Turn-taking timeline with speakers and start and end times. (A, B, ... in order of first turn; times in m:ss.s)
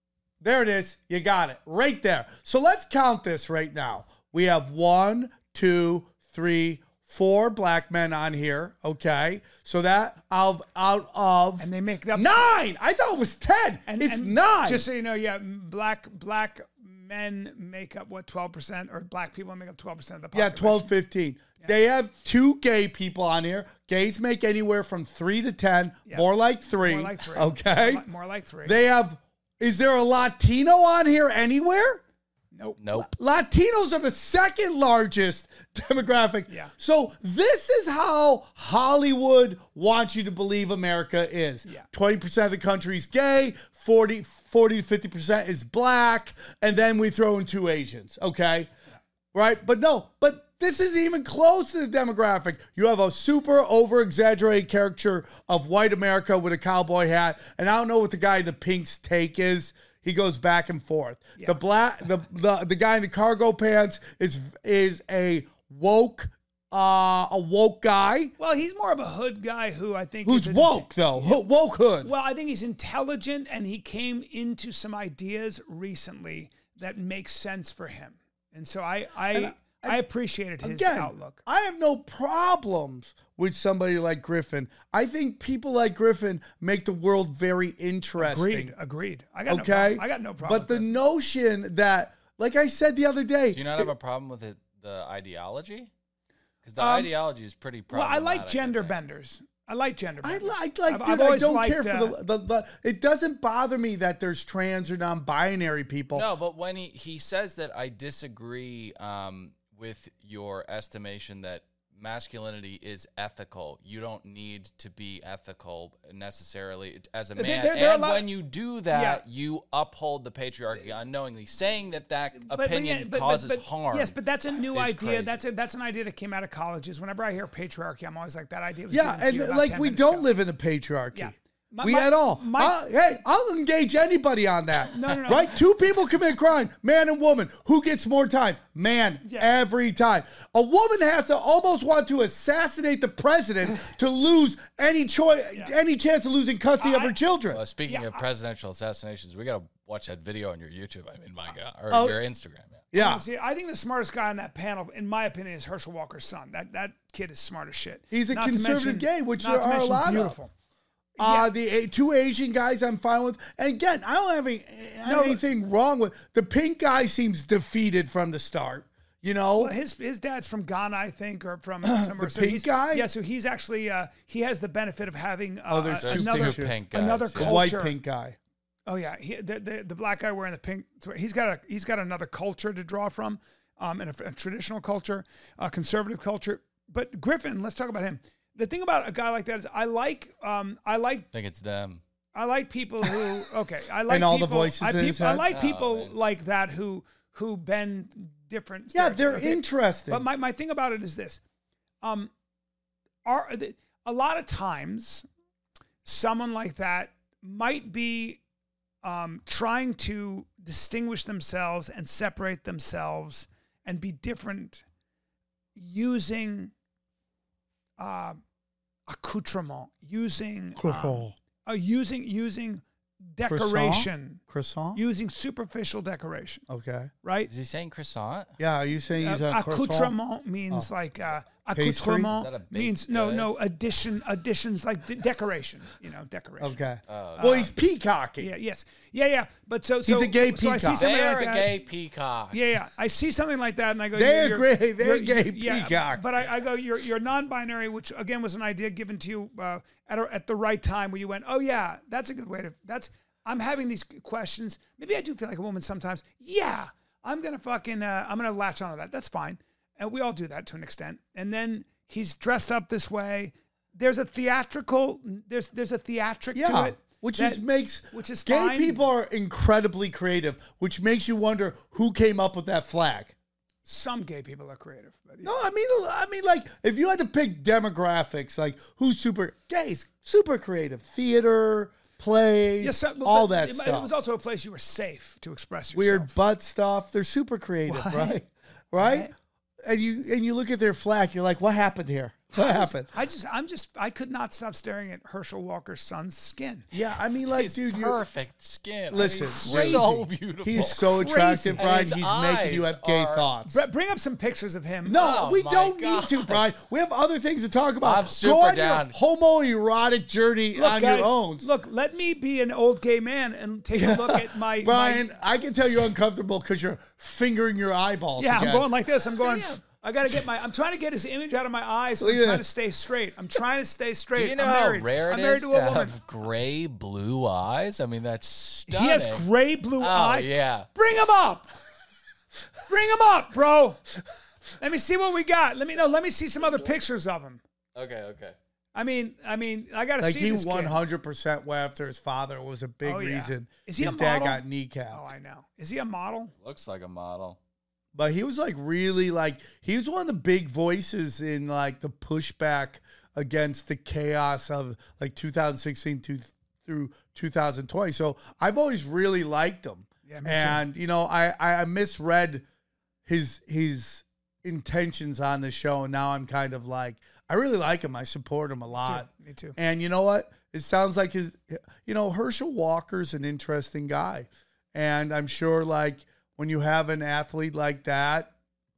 0:00.4-0:14.9 A
0:11.6-0:12.6 B
0:13.9-0:20.9 B
0:20.3-0:28.0 A
0:26.1-0:28.8 B
0:28.6-0:32.0 A
0:32.5-0:32.8 B
0:32.8-0:33.1 C
0:32.9-0:48.7 A
0:36.5-0:36.7 B
0:49.3-1:08.3 A
1:08.4-1:11.4 B
1:10.3-1:12.1 A
1:12.0-1:21.4 B
1:19.3-1:20.0 A
1:20.6-1:28.7 A
1:28.2-1:31.0 B
1:29.5-1:33.9 A
1:33.5-1:35.9 C
1:36.6-1:39.0 C
1:36.8-1:37.1 B
1:37.9-1:42.2 B
1:40.2-1:46.3 A
1:46.1-2:04.2 C
1:57.4-1:59.2 B
2:02.4-2:10.3 B
2:04.7-2:05.4 C
2:08.9-2:27.6 A
2:11.1-2:12.8 B
2:14.9-2:15.6 B
2:19.2-2:19.5 B
2:26.8-2:27.2 B
2:27.5-2:32.9 C
2:27.8-2:28.2 B
2:31.9-2:32.2 A
2:32.9-2:33.2 A
2:32.9-2:40.5 B
2:38.1-2:40.4 A
2:41.2-2:41.5 B
2:41.2-2:49.7 A
2:45.0-2:45.4 B
2:49.6-2:58.0 B
2:51.8-2:53.1 A
2:55.7-2:56.8 A
2:56.0-2:57.6 C
2:57.4-2:58.4 A
2:58.9-3:11.3 B
3:11.3-3:12.0 C
3:12.4-3:21.4 B
3:14.1-3:15.4 A
3:15.5-3:16.2 C
3:18.9-3:20.2 A
3:22.0-3:22.3 B
3:23.2-3:25.2 B
3:26.0-3:28.4 B
3:29.0-3:34.8 B
3:35.8-3:36.7 B
3:38.0-3:38.4 B
3:39.1-3:44.4 B
3:40.8-3:41.4 A
3:43.5-3:45.0 A
3:45.0-3:46.6 B
3:46.7-3:47.1 A
3:47.2-3:47.5 B
3:47.5-3:48.6 C
3:48.6-3:50.1 A
3:49.2-3:56.9 B
3:51.8-3:52.3 A
3:52.3-3:53.6 C
3:56.6-3:58.5 A
3:57.1-3:57.6 C
3:57.4-3:57.7 B
3:58.4-4:01.8 B
4:00.1-4:01.0 A
4:01.0-4:02.6 C
4:02.5-4:29.1 B
4:04.1-4:06.4 A
4:26.6-4:33.3 A
4:33.9-4:35.6 B
4:35.4-4:44.1 A
4:42.8-4:46.3 B
4:45.9-4:49.3 A
4:47.9-4:48.4 B
4:49.0-4:49.3 B
4:49.8-4:53.1 A
4:52.5-4:56.9 B
4:56.9-4:58.2 A
4:57.5-5:03.5 C
4:59.1-5:03.8 A
4:59.1-5:00.2 B
5:00.8-5:01.9 B
5:03.7-5:05.2 B
5:05.0-5:11.7 A
5:05.1-5:06.7 C
5:08.0-5:09.2 C
5:10.8-5:15.3 B
5:13.9-5:18.9 A
5:18.4-5:26.2 B
5:19.4-5:19.8 C
5:22.2-5:22.6 A
5:24.4-5:29.5 C
5:28.9-5:31.7 B
5:30.0-5:30.9 C
5:32.8-5:34.1 B
5:34.8-5:37.6 B
5:38.0-5:38.6 C
5:39.0-5:41.0 B
5:40.2-5:45.2 A
5:43.0-5:46.5 B
5:46.6-5:47.6 C
5:48.2-6:02.6 A
6:00.3-6:00.8 B
6:03.3-6:18.5 A
6:09.0-6:09.8 B